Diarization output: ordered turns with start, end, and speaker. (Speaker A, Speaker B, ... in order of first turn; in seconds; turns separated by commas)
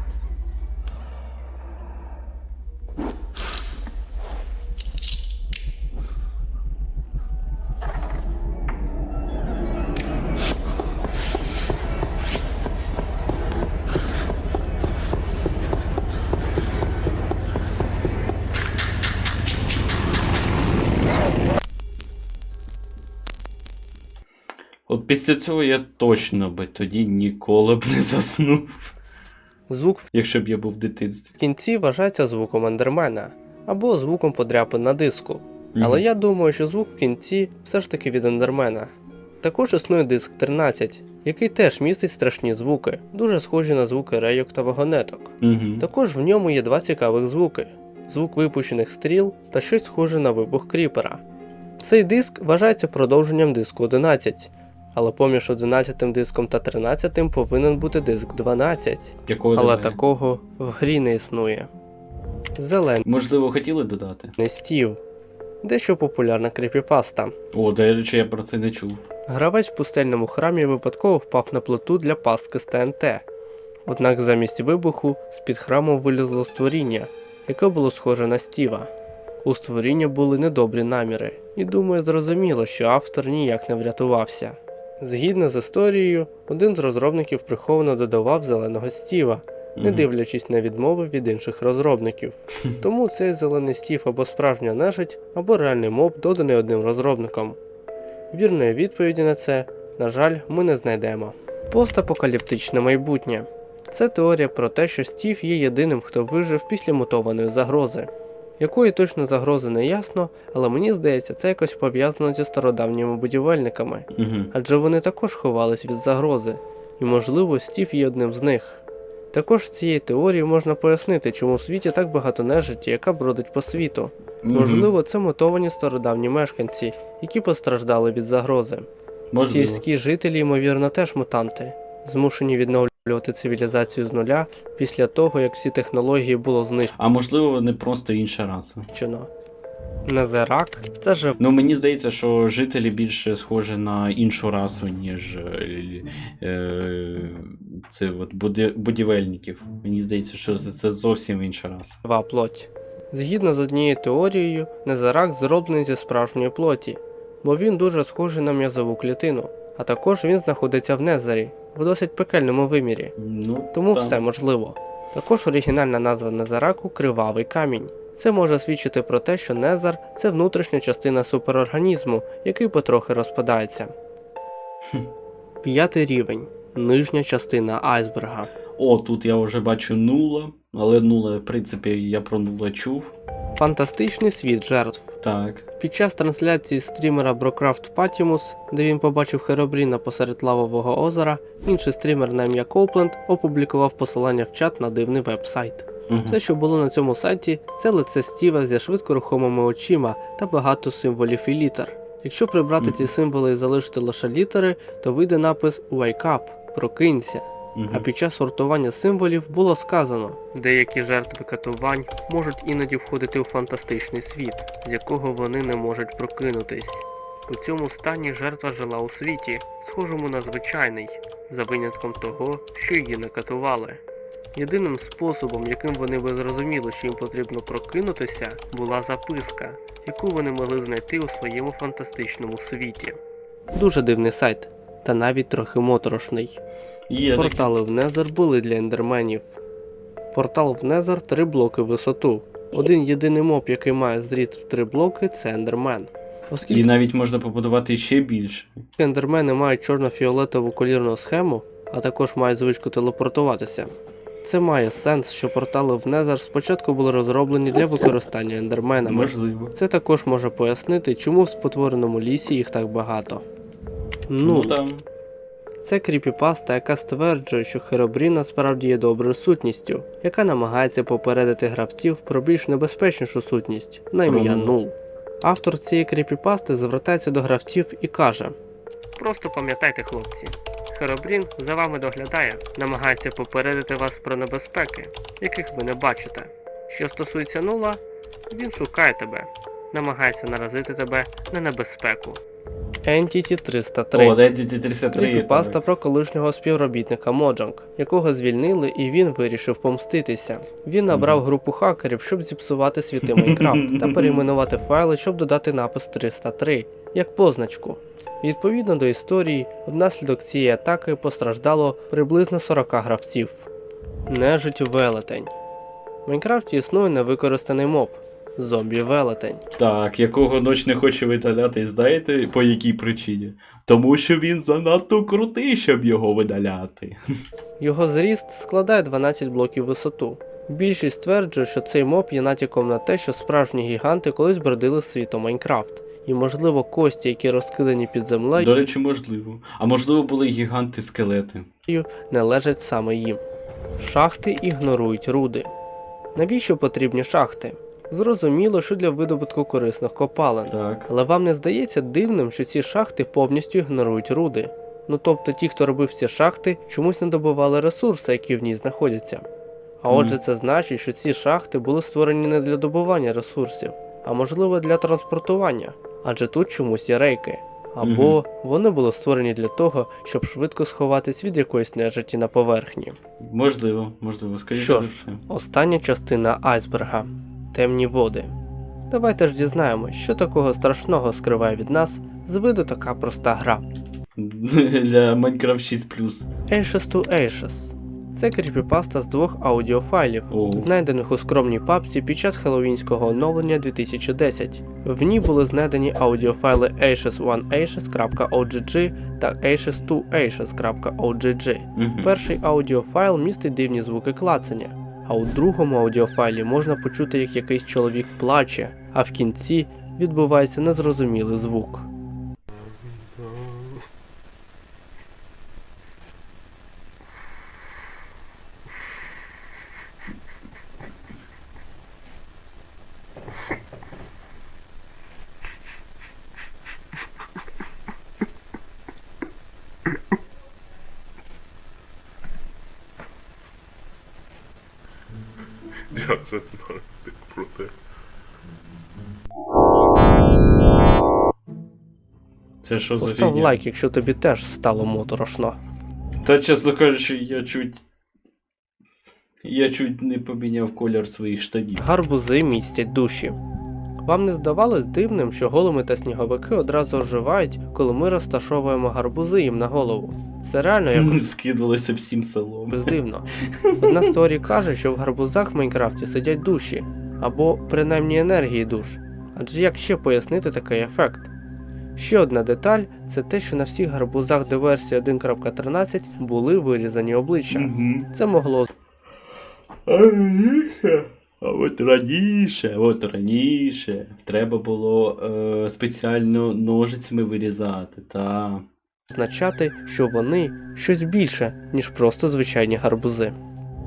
Speaker A: 24.9-28.9, Speaker B: 29.7-30.1, Speaker A: 30.1-31.3, Speaker B: 31.4-51.2, Speaker A: 35.7-36.0, Speaker A: 45.4-45.9, Speaker B: 51.8-61.7, Speaker A: 59.2-60.0, Speaker B: 62.6-63.0, Speaker A: 63.0-64.4, Speaker B: 64.4-65.0, Speaker B: 65.6-67.3, Speaker A: 67.5-69.0, Speaker B: 69.3-73.2, Speaker B: 73.8-78.9, Speaker B: 79.4-97.6, Speaker A: 89.8-90.1, Speaker B: 98.3-128.9, Speaker A: 114.1-114.5, Speaker A: 124.4-124.9, Speaker A: 129.3-129.8, Speaker B: 129.4-136.9, Speaker A: 136.9-138.9, Speaker B: 138.9-139.3, Speaker B: 140.0-141.4, Speaker A: 141.4-152.0, Speaker B: 152.0-163.1, Speaker A: 163.2-164.2, Speaker B: 163.7-173.9, Speaker B: 175.6-178.5, Speaker A: 178.8-183.1, Speaker B: 183.6-185.2, Speaker A: 185.2-185.7, Speaker B: 185.8-224.0, Speaker A: 196.1-196.4, Speaker A: 202.8-203.1, Speaker A: 207.7-208.1, Speaker B: 224.5-233.2, Speaker B: 233.7-236.6, Speaker A: 237.1-237.7, Speaker B: 237.3-239.6, Speaker B: 240.3-246.8, Speaker A: 246.7-248.8, Speaker B: 249.0-263.4, Speaker A: 259.0-259.8, Speaker B: 264.3-264.8, Speaker A: 264.4-265.0, Speaker B: 265.8-278.6, Speaker A: 274.2-274.8, Speaker B: 279.2-292.4, Speaker B: 293.0-294.4, Speaker A: 294.1-295.8, Speaker B: 295.1-313.7, Speaker A: 301.1-301.4, Speaker A: 303.3-304.4, Speaker B: 314.3-315.5, Speaker B: 316.2-319.6, Speaker A: 319.8-327.2, Speaker B: 327.8-338.7, Speaker A: 338.6-341.7, Speaker B: 341.9-343.4, Speaker B: 344.0-345.7, Speaker B: 346.3-359.5, Speaker A: 350.7-351.1, Speaker B: 360.0-373.2, Speaker A: 360.1-360.4, Speaker A: 368.0-368.4, Speaker A: 373.4-375.4, Speaker B: 374.7-378.5, Speaker B: 379.1-383.9, Speaker A: 384.4-386.5, Speaker B: 386.7-412.1, Speaker A: 390.5-390.9, Speaker A: 401.9-402.3, Speaker C: 413.4-413.6, Speaker C: 436.1-437.9, Speaker A: 442.8-443.8, Speaker B: 443.2-445.8, Speaker A: 446.4-448.0, Speaker A: 449.6-452.1, Speaker B: 452.0-453.6, Speaker B: 454.2-461.4, Speaker A: 461.1-463.1, Speaker B: 462.9-463.5, Speaker A: 463.7-464.3, Speaker B: 464.0-471.5, Speaker B: 472.1-478.9, Speaker A: 477.7-478.3, Speaker A: 480.1-488.9, Speaker B: 489.3-493.6